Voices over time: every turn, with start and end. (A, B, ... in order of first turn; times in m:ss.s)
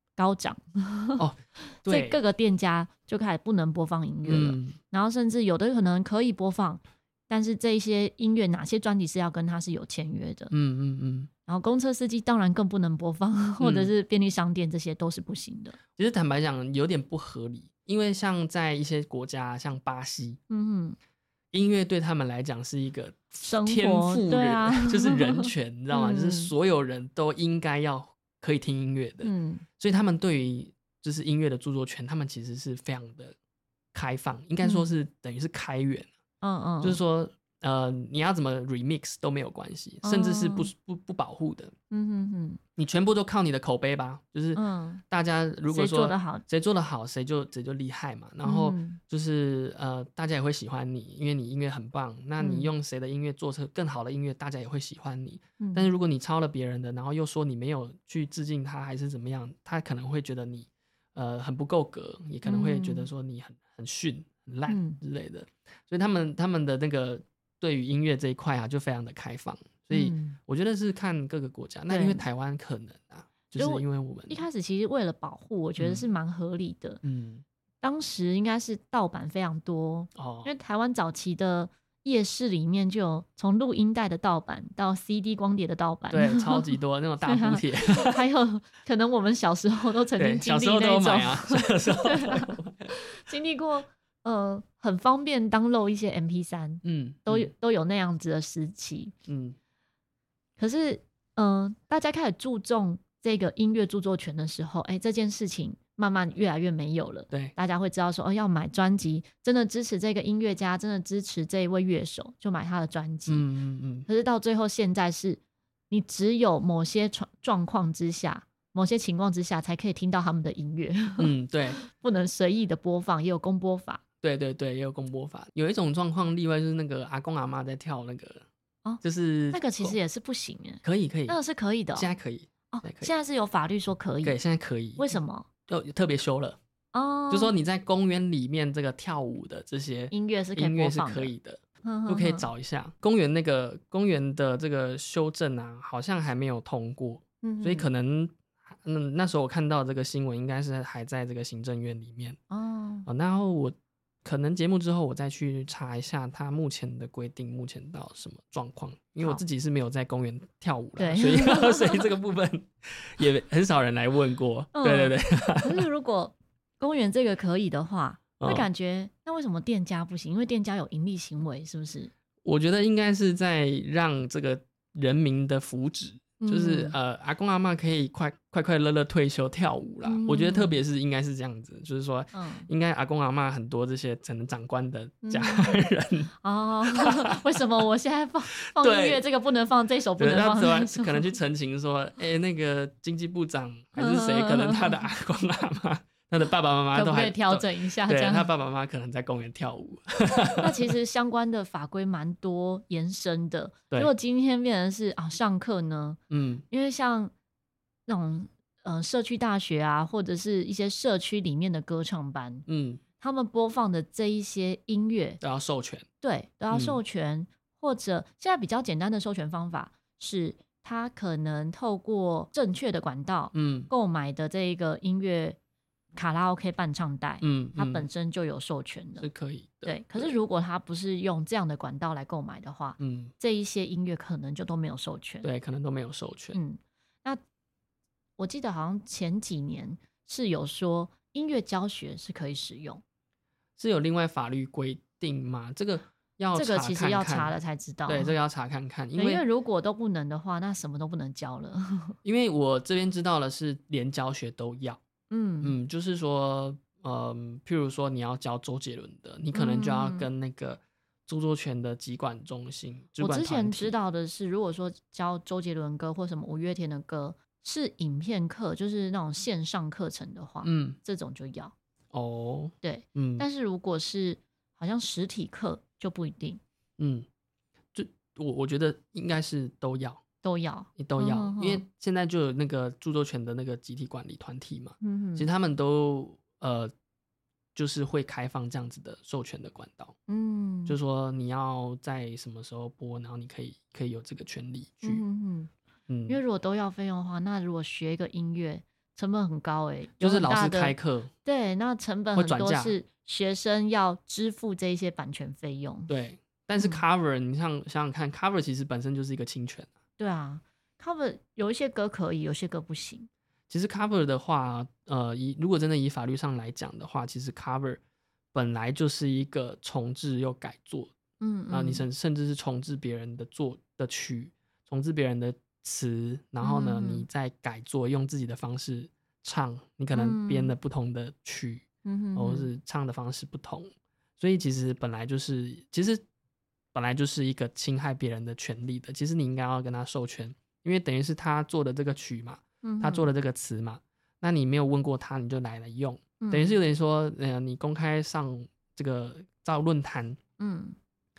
0:00.2-0:01.2 A
0:01.2-0:02.2 B
0:01.8-0:10.5 A
0:04.2-0:04.8 B
0:10.5-0:11.3 B
0:11.5-0:15.8 A
0:13.6-0:13.9 B
0:16.0-0:20.4 B
0:20.5-0:21.0 A
0:21.5-0:33.4 B
0:23.4-0:26.5 A
0:29.2-0:29.6 A
0:33.9-0:36.1 B
0:34.6-0:34.9 A
0:36.4-0:37.0 A
0:36.8-0:41.7 B
0:40.0-0:40.7 A
0:41.9-0:42.6 A
0:42.8-1:14.4 B
0:44.6-0:45.0 A
0:45.7-0:46.4 A
0:48.4-0:49.0 A
0:52.4-0:52.7 A
0:55.6-0:55.9 A
1:02.4-1:03.1 A
1:04.7-1:05.0 A
1:09.9-1:10.4 A
1:11.9-1:12.3 A
1:13.6-1:17.0 A
1:15.8-1:16.1 B
1:17.0-1:17.4 B
1:17.8-1:26.7 A
1:20.2-1:20.5 B
1:26.1-1:28.2 B
1:27.2-1:39.1 A
1:30.2-1:32.9 B
1:36.8-1:37.5 B
1:39.3-1:39.6 B
1:40.6-1:53.4 A
1:53.3-1:54.1 B
1:54.1-2:04.0 A
2:01.2-2:01.8 B
2:04.2-2:08.4 B
2:08.8-2:12.1 A
2:09.0-2:10.0 B
2:10.8-2:11.4 B
2:11.9-2:13.1 B
2:12.7-2:14.4 A
2:14.2-2:15.1 B
2:15.0-2:15.5 A
2:15.7-2:16.6 B
2:16.9-2:17.5 A
2:17.3-2:32.4 B
2:20.1-2:21.3 A
2:21.8-2:22.5 A
2:27.4-2:27.9 A
2:32.5-2:33.1 A
2:33.1-2:45.8 B
2:41.0-2:42.1 A
2:44.8-2:52.1 A
2:48.4-2:48.7 B
2:52.4-3:06.3 B
2:56.4-2:57.0 A
3:00.0-3:00.8 A
3:02.3-3:02.7 A
3:05.2-3:05.7 A
3:06.4-3:11.3 A
3:06.9-3:07.4 B
3:08.6-3:09.2 B
3:10.2-3:20.7 B
3:14.0-3:15.0 A
3:16.9-3:18.5 A
3:20.6-3:26.2 A
3:26.3-3:26.6 B
3:26.7-3:27.3 A
3:28.1-3:32.7 A
3:32.7-3:33.0 B
3:33.2-3:35.4 A
3:35.4-3:36.1 B
3:36.2-3:45.6 A
3:36.7-3:37.0 B
3:43.5-3:43.9 B
3:46.2-3:49.3 A
3:47.4-3:48.1 B
3:49.2-3:50.3 B
3:49.8-3:55.5 A
3:53.0-3:53.3 B
3:55.4-3:56.6 B
3:56.5-3:57.4 A
3:58.4-4:03.0 A
4:03.8-4:07.6 B
4:06.6-4:08.3 A
4:08.1-4:09.4 B
4:09.2-4:12.2 A
4:12.2-4:15.0 B
4:15.3-4:15.8 A
4:15.6-4:24.0 B
4:19.5-4:20.3 A
4:23.2-4:31.7 A
4:30.6-4:31.0 B
4:32.1-4:33.5 B
4:32.8-4:36.6 A
4:37.0-4:37.3 B
4:37.9-4:40.2 B
4:40.4-4:41.8 A
4:41.0-4:46.9 B
4:45.0-4:45.5 A
4:47.8-4:50.2 B
4:50.3-4:51.0 A
4:50.9-4:55.2 B
4:55.0-4:55.7 A
4:56.1-4:56.4 B
4:56.3-5:06.1 A
5:00.2-5:01.3 B
5:02.4-5:03.0 B
5:06.1-5:09.9 B
5:06.8-5:07.0 A
5:10.2-5:13.3 A
5:13.7-5:18.0 B
5:18.5-5:21.1 B
5:21.4-5:22.0 A
5:21.7-5:36.2 B
5:26.6-5:27.3 A
5:30.1-5:30.7 A
5:32.0-5:32.7 A
5:36.9-5:50.4 B
5:42.8-5:43.3 A
5:46.4-5:46.8 A
5:50.6-5:51.0 A